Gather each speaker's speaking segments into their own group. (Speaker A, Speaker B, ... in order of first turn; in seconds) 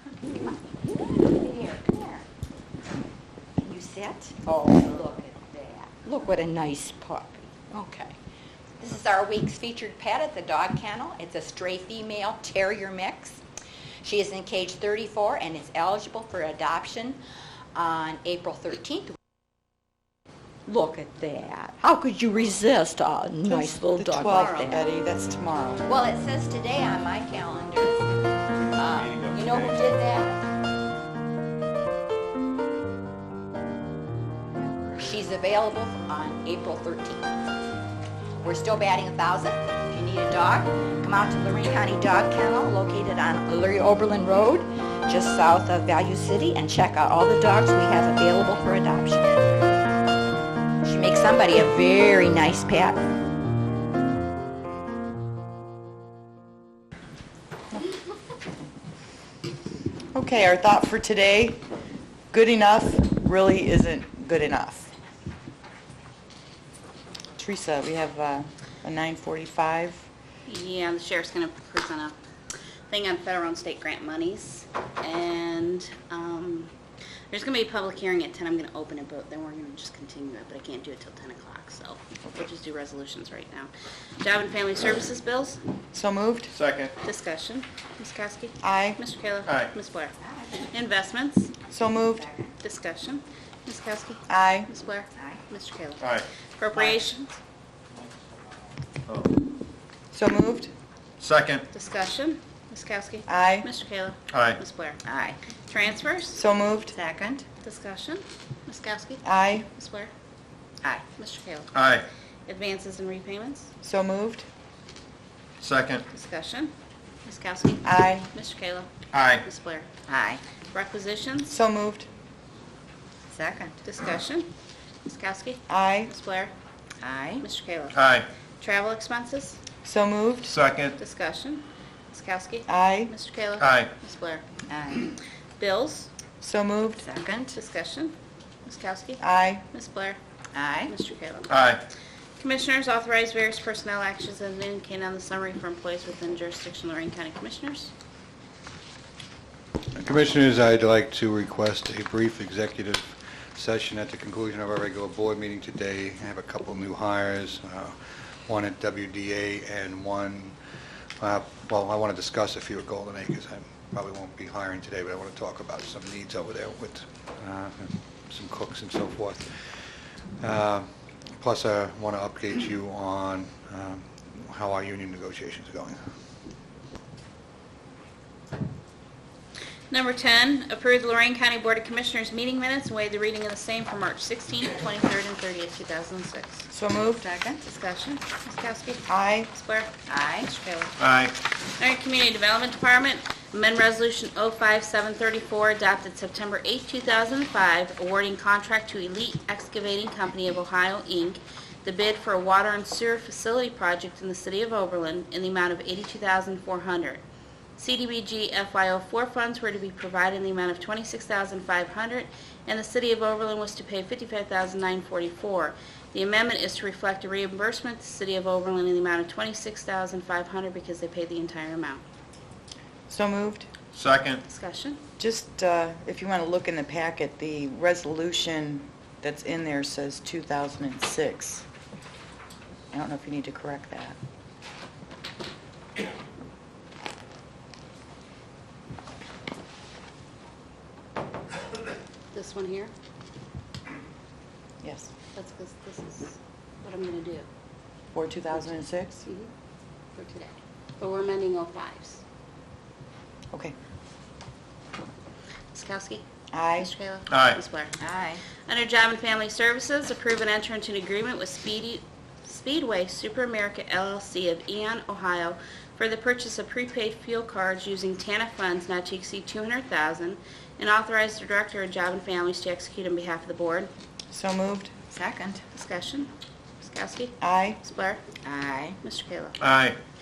Speaker A: 0.8-2.2, 3.6-8.2, 8.8-13.4, 14.0-17.2, 17.8-19.2, 20.7-24.9, 25.9-28.1, 28.8-30.4, 35.0-37.4, 38.4-49.4, 50.8-53.0, 92.2-92.5, 95.2-95.4, 105.0-105.4, 106.9-107.5, 120.1-120.4, 123.3-123.8, 127.0-127.5, 134.7-135.1, 137.0-137.6, 140.5-140.9, 187.1-187.6, 190.1-190.5, 258.0-258.4, 275.1-275.6, 278.4-279.0
Speaker B: 23.5-25.9, 60.1-61.6, 62.3-64.9, 67.4-70.1, 85.9-86.5, 88.6-89.0, 91.7-92.3, 94.3-94.7, 100.1-100.7, 103.3-103.7, 106.3-106.9, 109.2-109.7, 113.8-114.5, 117.8-118.3, 121.5-122.1, 125.7-126.1, 129.8-130.6, 132.7-133.1, 136.4-137.0, 139.2-139.7, 186.7-187.3, 189.1-189.5, 223.1-223.7, 225.2-231.7, 232.9-234.2, 244.8-245.1, 248.1-249.2, 256.5-256.9, 274.3-274.9, 277.4-277.8
Speaker C: 28.8-29.7, 86.5-86.9, 89.5-89.7, 96.0-96.3, 99.1-99.3, 101.2-101.7, 104.3-104.6, 111.7-112.0, 115.6-116.0, 119.1-119.4, 127.9-128.3, 130.4-131.0, 133.6-133.9, 141.5-141.8, 191.0-191.3, 223.9-224.4, 257.3-257.6, 279.6-280.0
Speaker D: 70.5-72.2, 72.9-76.7, 77.3-85.6, 87.0-90.1, 90.7-91.5, 92.6-96.0, 96.6-97.4, 101.7-105.0, 105.7-106.4, 107.6-110.1, 111.2-111.7, 112.5-113.7, 116.1-116.7, 117.2-118.9, 119.4-119.9, 120.7-121.5, 123.8-124.5, 125.0-126.5, 127.4-128.0, 128.6-129.6, 131.0-134.4, 135.6-136.1, 137.5-140.2, 140.9-141.5, 142.4-147.9, 179.9-186.7, 187.6-189.9, 190.4-190.9, 191.8-207.2, 207.8-222.0, 224.5-225.0, 242.3-242.9, 245.3-247.5, 249.2-249.5, 250.2-252.2, 255.7-257.9, 258.7-273.9, 275.7-278.2, 279.0-279.6
Speaker E: 150.0-160.6, 161.2-176.0